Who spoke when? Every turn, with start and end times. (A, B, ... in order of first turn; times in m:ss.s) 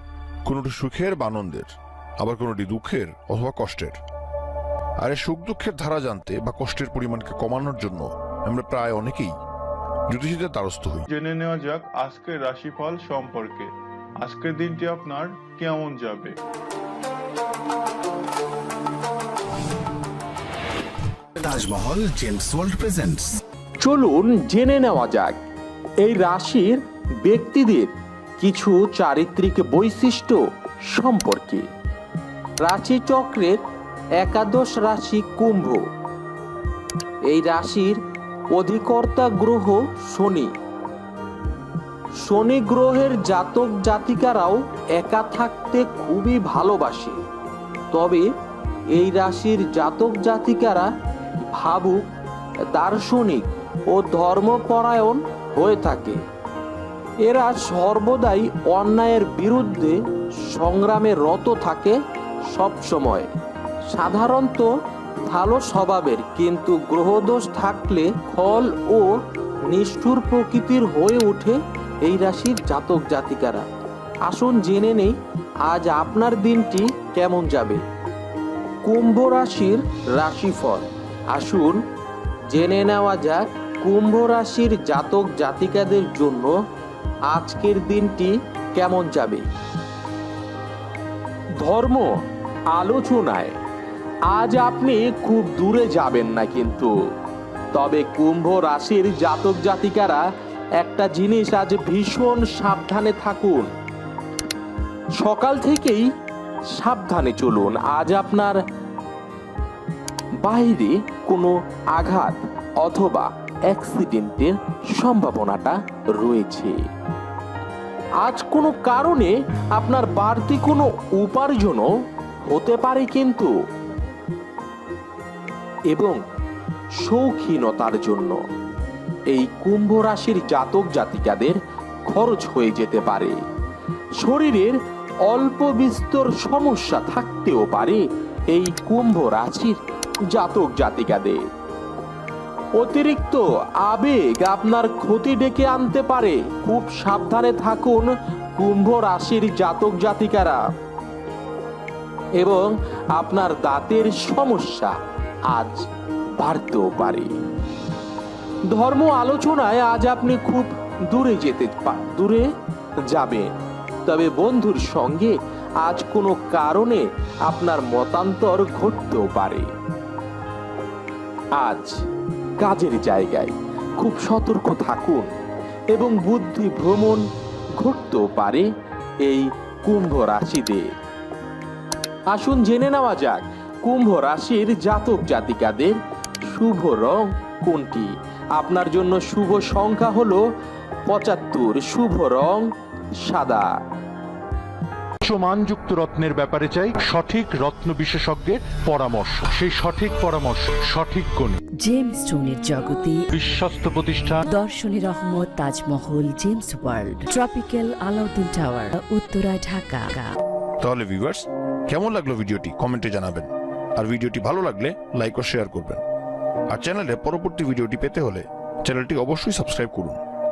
0:00.4-0:04.0 A
0:05.0-0:09.4 A
0:10.1-0:11.1 A
0:11.1-0:16.4 B
0:21.4-0:23.3 C
0:23.8-0:25.4 D
0:26.0-0:31.6 D
0:32.6-0:33.6 D
0:34.2-0:35.8 D
0:37.3-0:38.0 D
0:38.5-0:40.5 D
0:42.2-0:47.2 D
0:47.9-0:48.2 D
0:48.9-0:52.0 D
0:52.7-0:56.2 D
0:57.2-1:02.0 D
1:02.5-1:03.3 D
1:03.9-1:04.7 D
1:05.2-1:13.7 D
1:14.3-1:17.8 D
1:18.8-1:21.8 D
1:22.5-1:26.5 D
1:27.3-1:29.4 D
1:31.6-1:32.1 D
1:32.7-1:33.6 D
1:34.3-1:36.9 D
1:37.7-1:40.2 D
1:40.8-1:43.7 D
1:45.2-1:46.1 D
1:46.7-1:48.6 D
1:50.4-1:56.8 D
1:58.2-2:01.9 D
2:02.5-2:03.5 D
2:05.9-2:06.2 D
2:07.0-2:08.4 D
2:09.3-2:13.4 D
2:14.2-2:14.8 D
2:15.3-2:19.8 D
2:20.3-2:21.4 D
2:22.8-2:30.6 D
2:32.4-2:34.9 D
2:35.5-2:35.8 D
2:36.4-2:37.3 D
2:38.7-2:42.5 D
2:43.1-2:43.5 D
2:44.0-2:49.7 D
2:51.6-2:52.0 D
2:52.6-2:55.3 D
2:55.9-2:57.2 D
2:57.8-2:58.7 D
2:59.2-3:00.9 D
3:02.3-3:06.0 D
3:06.5-3:10.4 D
3:11.0-3:12.7 D
3:13.2-3:13.7 D
3:15.2-3:21.6 E
3:21.8-3:23.3 F
3:23.3-3:24.4 E
3:24.5-3:30.3 F
3:30.8-3:36.0 A
3:36.7-3:40.2 A